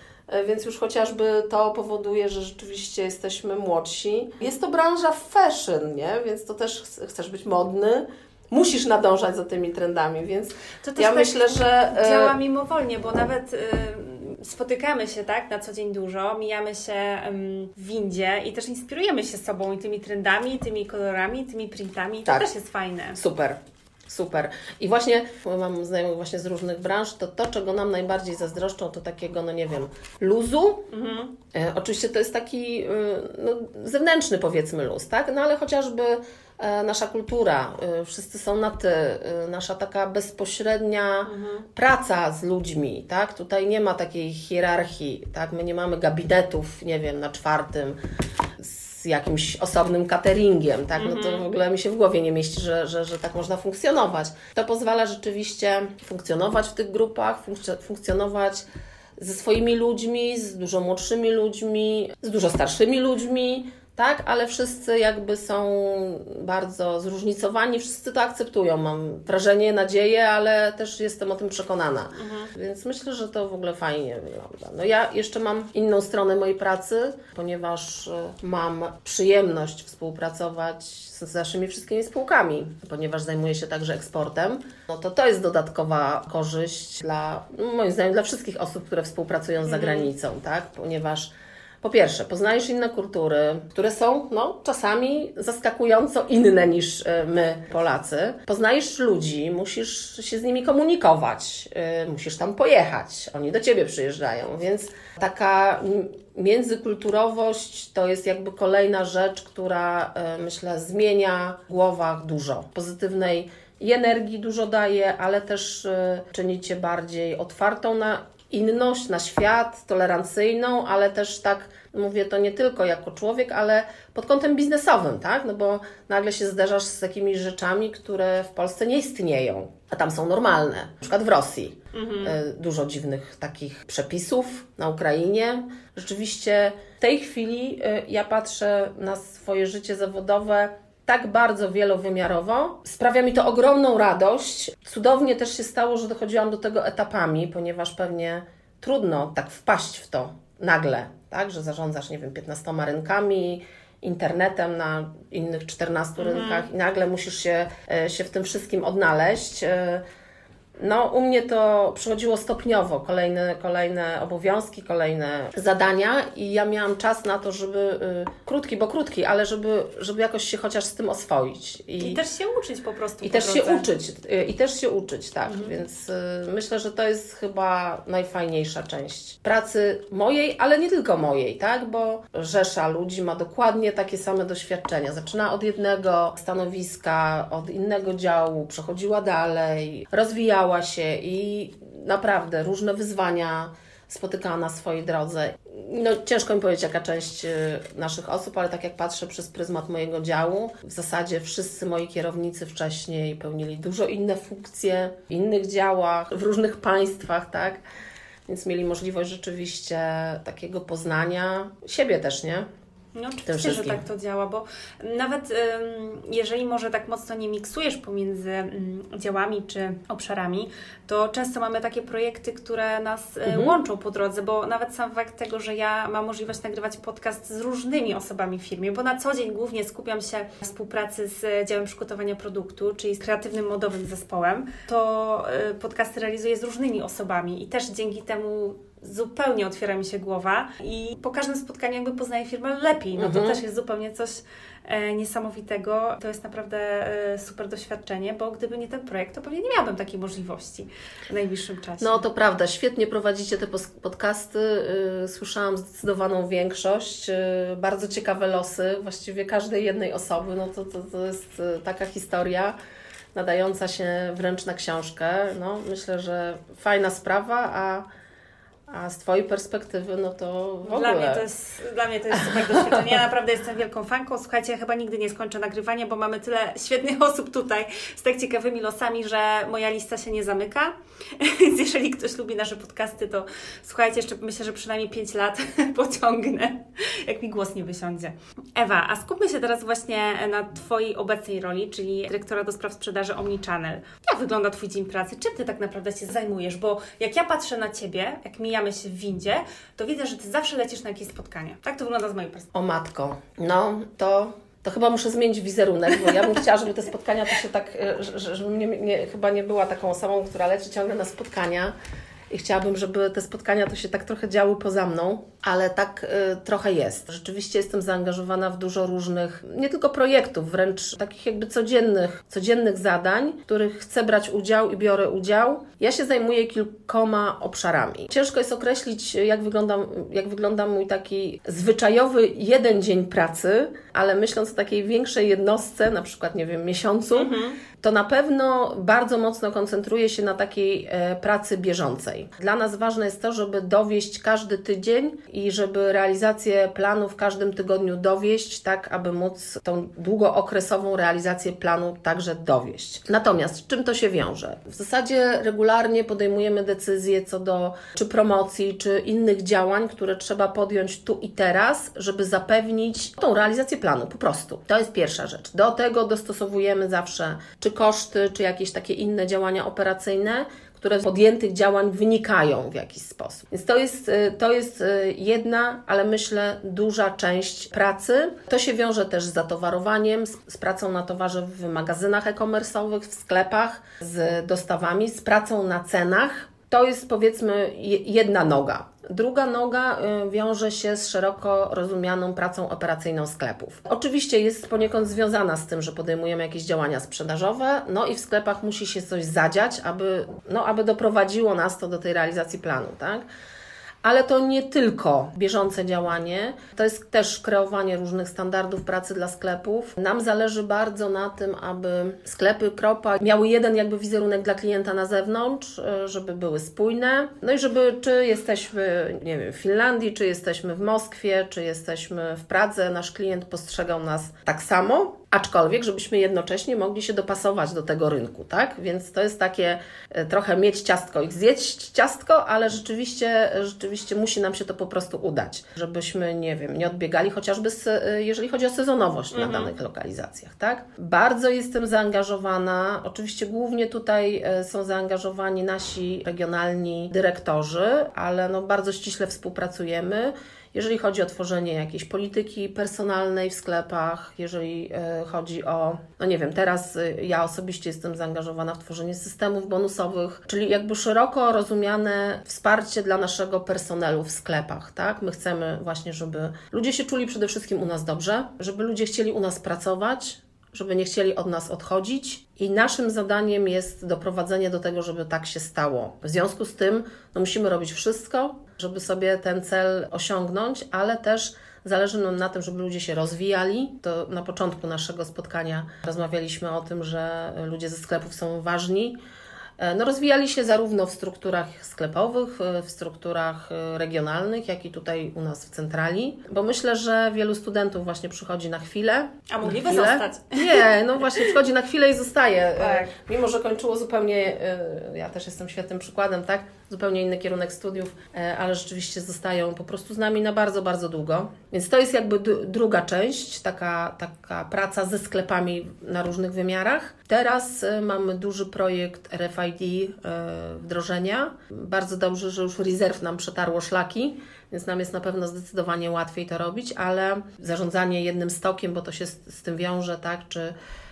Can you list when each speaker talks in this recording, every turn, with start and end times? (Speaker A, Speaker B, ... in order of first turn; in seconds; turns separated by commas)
Speaker A: 0.3-12.4, Speaker B: 10.8-23.2, Speaker A: 23.1-30.9, Speaker B: 30.9-31.3, Speaker A: 31.5-48.0, Speaker B: 41.2-41.7, Speaker A: 48.6-58.6, Speaker B: 51.0-51.5, Speaker A: 59.2-160.0, Speaker B: 72.1-72.5, Speaker B: 89.7-90.1, Speaker B: 131.9-132.4, Speaker B: 156.2-156.7, Speaker A: 160.8-172.2, Speaker B: 172.0-173.9, Speaker A: 173.2-207.8, Speaker B: 175.4-175.7, Speaker A: 208.5-212.7, Speaker B: 213.1-252.2, Speaker A: 213.5-214.0, Speaker A: 223.4-223.8, Speaker A: 243.2-243.6, Speaker A: 252.0-262.8, Speaker A: 263.3-268.0, Speaker A: 268.9-271.4, Speaker B: 270.8-302.7, Speaker A: 272.3-273.2, Speaker A: 302.7-311.9, Speaker A: 312.5-403.4, Speaker B: 337.3-337.8, Speaker A: 404.2-489.4, Speaker B: 439.5-439.9, Speaker A: 490.0-530.9, Speaker B: 499.7-501.7, Speaker B: 503.0-503.3